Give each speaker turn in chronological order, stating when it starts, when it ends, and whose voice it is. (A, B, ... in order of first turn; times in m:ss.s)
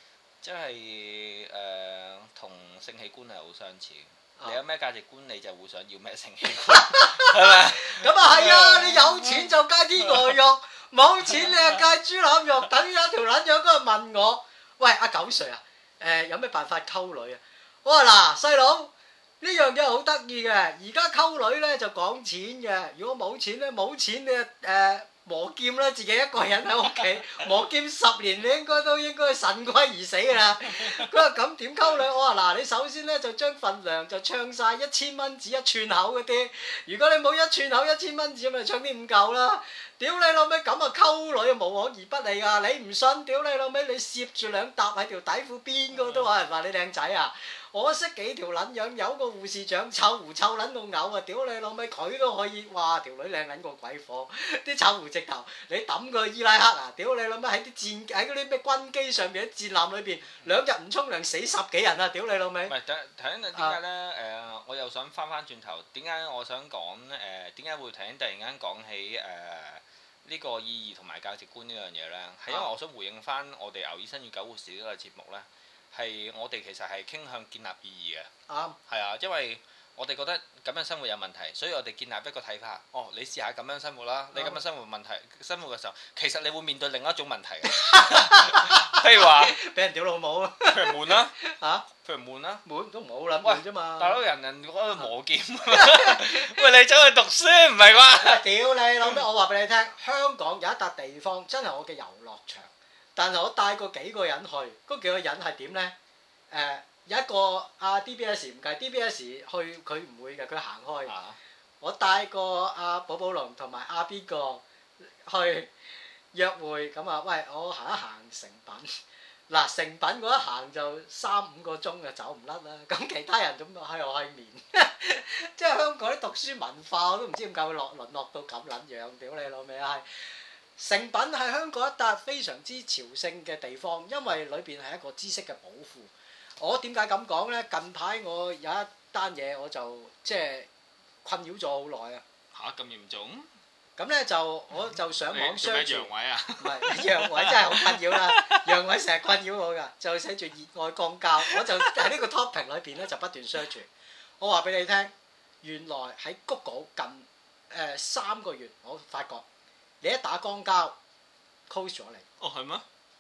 0:00.4-0:10.3 A
0:06.6-1:02.8 B
0:11.3-0:11.8 A
0:30.8-0:31.1 A
0:46.0-0:46.3 A
1:02.7-1:18.3 A
1:18.5-1:18.8 B
1:18.9-1:29.6 A
1:24.3-1:24.6 B
1:27.6-1:31.9 B
1:30.7-1:31.4 A
1:31.9-1:32.6 A
1:32.7-1:34.2 B
1:33.4-1:38.4 A
1:35.7-1:36.6 B
1:38.2-1:45.9 B
1:46.5-1:51.1 B
1:51.1-1:51.4 A
1:51.8-1:55.7 B
1:56.3-1:59.0 B
1:59.5-2:10.0 B
2:10.8-2:20.7 B
2:21.2-2:22.2 B
2:22.5-2:23.5 A
2:24.0-2:33.9 B
2:25.3-2:28.8 A
2:31.5-2:32.0 A
2:34.4-2:39.4 B
2:40.0-2:41.0 B
2:41.7-2:42.3 B
2:42.4-2:42.8 A